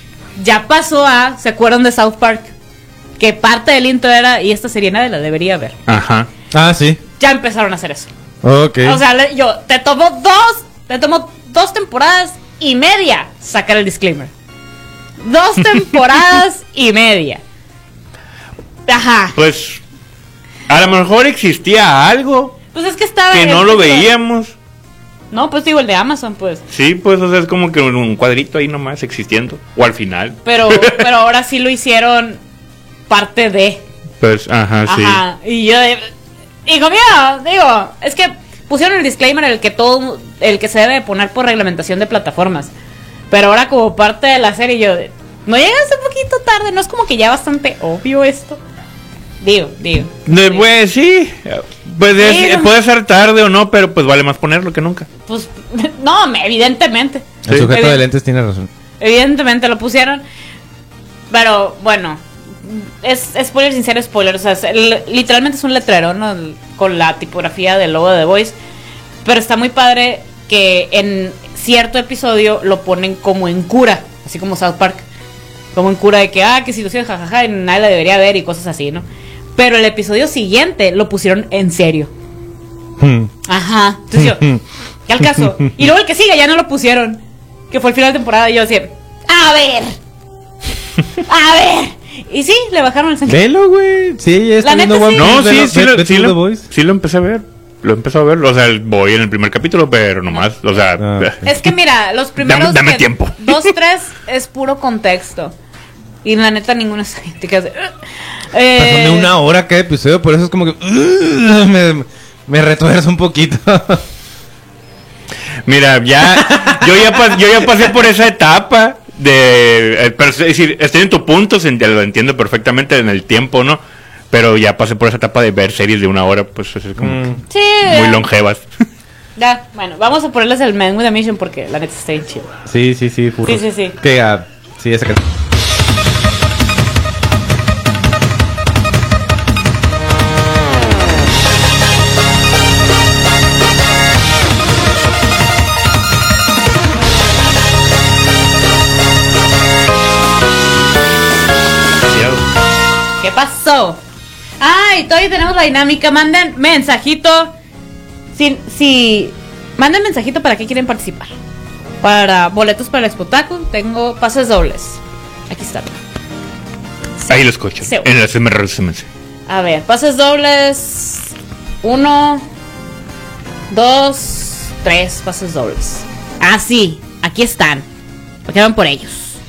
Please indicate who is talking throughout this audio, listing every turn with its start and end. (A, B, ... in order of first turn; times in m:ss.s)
0:00.4-0:02.5 A
0:03.2-0:05.8 A
0:05.9-0:06.3 B
0:06.5-0:07.0 C
0:07.2-0:08.1 A
0:08.4-0:09.0 C
0:08.8-0:14.3 A
0:15.2-0:17.4 A
0:18.9-0:19.4 A
0:19.4-0:19.8 B
0:20.7-0:22.6 B
0:22.7-0:24.1 A
0:23.3-0:24.5 B
0:25.3-0:26.6 A
0:26.7-0:31.1 B
0:30.4-0:32.4 A
0:33.1-0:33.8 A
0:34.2-0:35.2 B
0:34.9-0:36.1 A
0:36.7-0:42.7 A
0:43.3-0:48.6 A
0:49.4-0:50.6 A
0:50.3-0:55.1 B
0:52.2-0:52.7 A
0:55.3-0:58.0 A
0:57.5-0:58.7 C
0:59.0-1:00.2 A
1:01.3-1:08.6 A
1:09.2-1:15.0 A
1:15.8-1:19.0 A
1:19.6-1:22.1 A
1:23.0-1:23.3 C
1:23.5-1:24.5 A
1:24.2-1:24.6 C
1:25.1-1:30.0 A
1:25.2-1:25.5 C
1:31.3-1:33.4 A
1:33.3-1:36.6 C
1:34.6-1:35.4 A
1:35.1-1:41.7 B
1:41.0-1:41.3 C
1:41.4-1:45.5 A
1:42.4-1:43.7 B
1:46.2-1:47.9 A
1:48.5-1:49.3 A
1:48.8-1:54.0 C
1:55.7-2:08.7 B
1:56.5-1:56.8 C
2:07.0-2:07.4 C
2:07.5-2:08.2 A
2:09.4-2:12.5 A
2:12.6-2:15.2 C
2:13.4-2:14.0 A
2:32.0-2:32.4 B
2:33.2-2:34.0 A
2:34.6-2:37.5 A
2:38.4-2:41.3 A
2:42.0-2:46.0 A
2:47.3-2:49.1 B
2:47.8-2:48.1 A
2:49.5-2:52.5 A
2:53.7-2:57.9 A
2:58.5-2:59.4 A